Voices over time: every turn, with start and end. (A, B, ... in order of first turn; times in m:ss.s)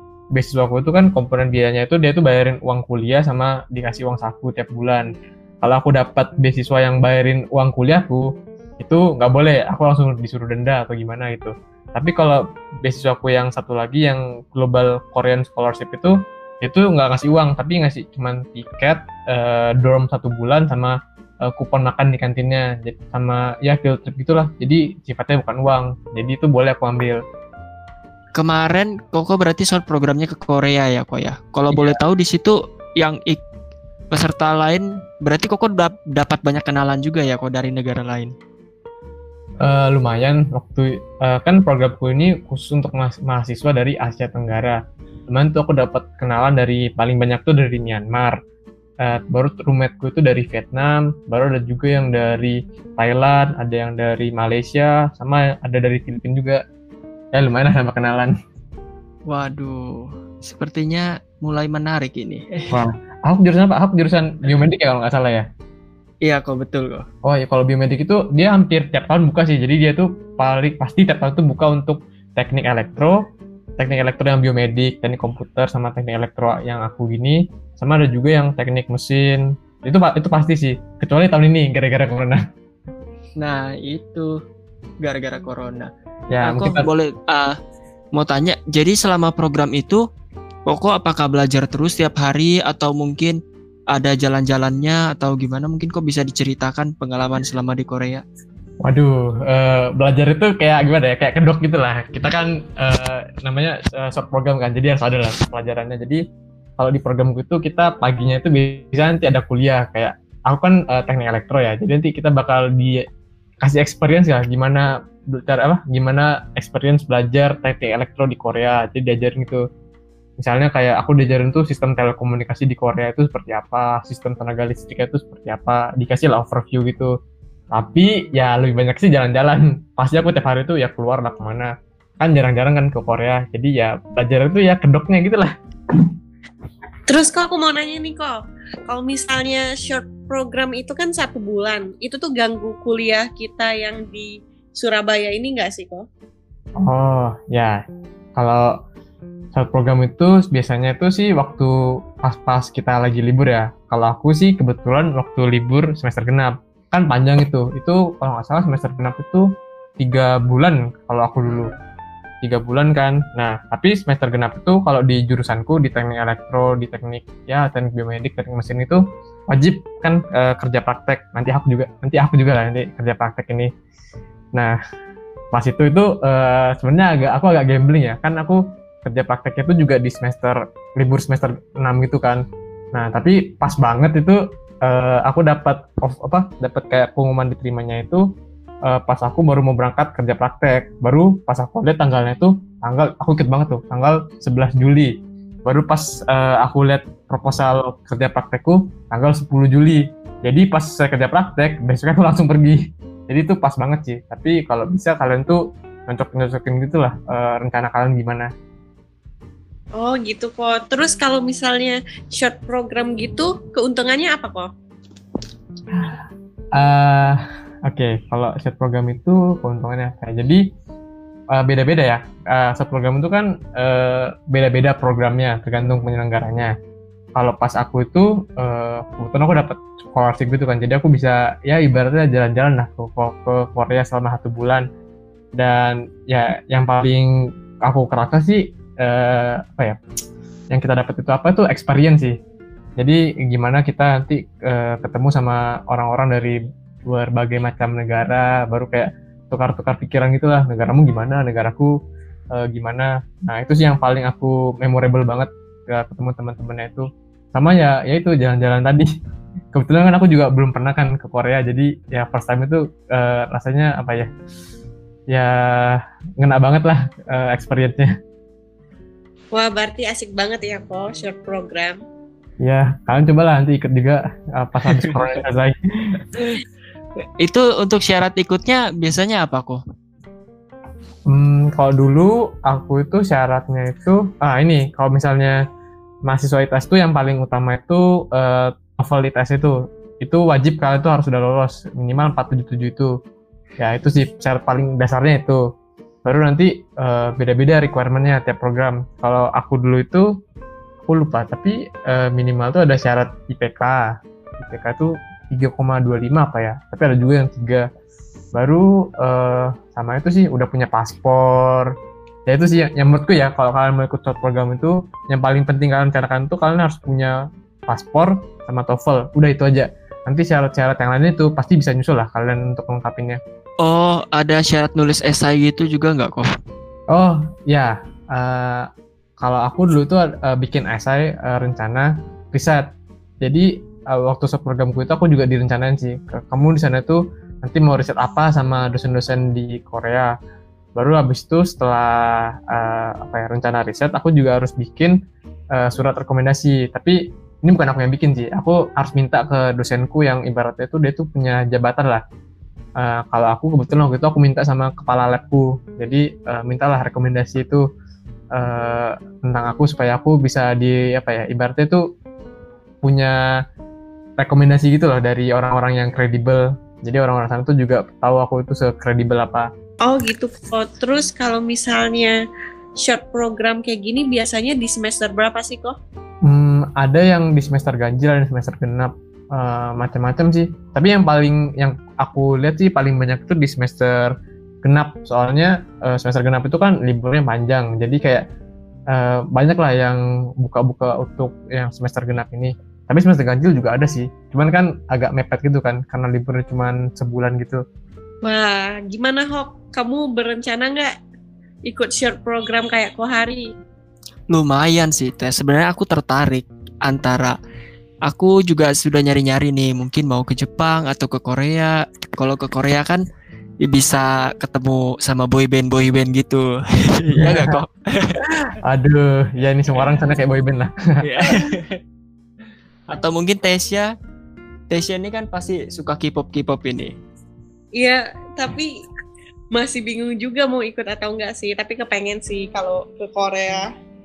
0:00.3-0:08.2 A
0:08.8-0:27.2 A
0:28.3-0:33.4 B
0:31.7-0:32.0 A
0:34.1-0:38.3 B
0:39.6-0:48.4 A
0:49.0-0:56.6 A
0:57.3-0:58.3 A
0:59.3-1:02.8 B
1:02.7-1:05.5 A
1:06.2-1:07.0 B
1:07.2-1:13.2 A
1:13.8-1:22.4 A
1:23.4-1:24.3 B
1:25.0-1:25.9 B
1:26.3-1:26.9 A
1:26.4-1:27.6 B
1:28.1-1:30.0 B
1:30.7-1:33.4 B
1:33.9-1:38.2 B
1:38.8-1:46.2 A
1:46.8-1:53.0 A
1:53.6-1:59.6 A
2:00.4-2:07.1 A
2:07.7-2:15.5 A
2:17.1-2:18.4 C
2:18.9-2:26.0 C
2:26.8-2:27.8 A
2:28.4-2:28.8 A
2:29.5-2:31.7 A
2:32.2-2:39.5 A
2:40.0-2:41.7 A
2:41.5-2:41.8 B
2:42.4-2:53.7 A
2:55.5-3:08.2 A
3:08.8-3:28.5 A
3:30.0-3:34.7 C
3:35.9-3:40.6 A
3:41.5-3:46.7 A
3:47.3-3:54.9 A
3:55.6-3:57.3 A
3:57.8-4:00.0 A
4:00.7-4:02.4 A
4:03.0-4:11.9 A
4:12.5-4:19.1 A
4:19.7-4:24.3 A
4:25.3-4:28.1 A
4:29.5-4:32.0 C
4:32.6-4:35.8 A
4:34.8-4:35.3 B
4:36.3-4:36.6 B
4:37.4-4:39.8 B
4:41.3-4:45.6 A
4:46.3-4:53.1 A
4:53.8-4:55.6 A
4:56.2-5:00.3 A
5:01.1-5:07.9 A
5:08.5-5:11.9 A
5:12.5-5:23.4 A
5:23.8-5:26.5 B
5:27.1-5:28.9 A
5:29.4-5:32.8 A
5:33.4-5:40.3 A
5:41.0-5:45.2 A
5:45.7-5:52.2 A
5:53.0-5:57.8 A
5:58.5-6:02.0 A
6:03.0-6:03.4 A
6:04.4-6:09.7 A
6:10.0-6:12.4 C
6:13.0-6:16.0 C
6:16.4-6:28.4 A
6:29.1-6:37.8 A
6:38.4-6:41.1 C
6:41.8-6:43.7 C
6:44.5-6:47.6 B
6:48.3-6:53.2 B
6:53.8-6:58.4 B
6:57.3-6:57.8 A
6:58.6-7:01.6 A
7:01.2-7:02.0 B
7:03.1-7:04.1 B
7:04.9-7:07.1 B
7:08.0-7:08.9 C
7:09.7-7:13.9 C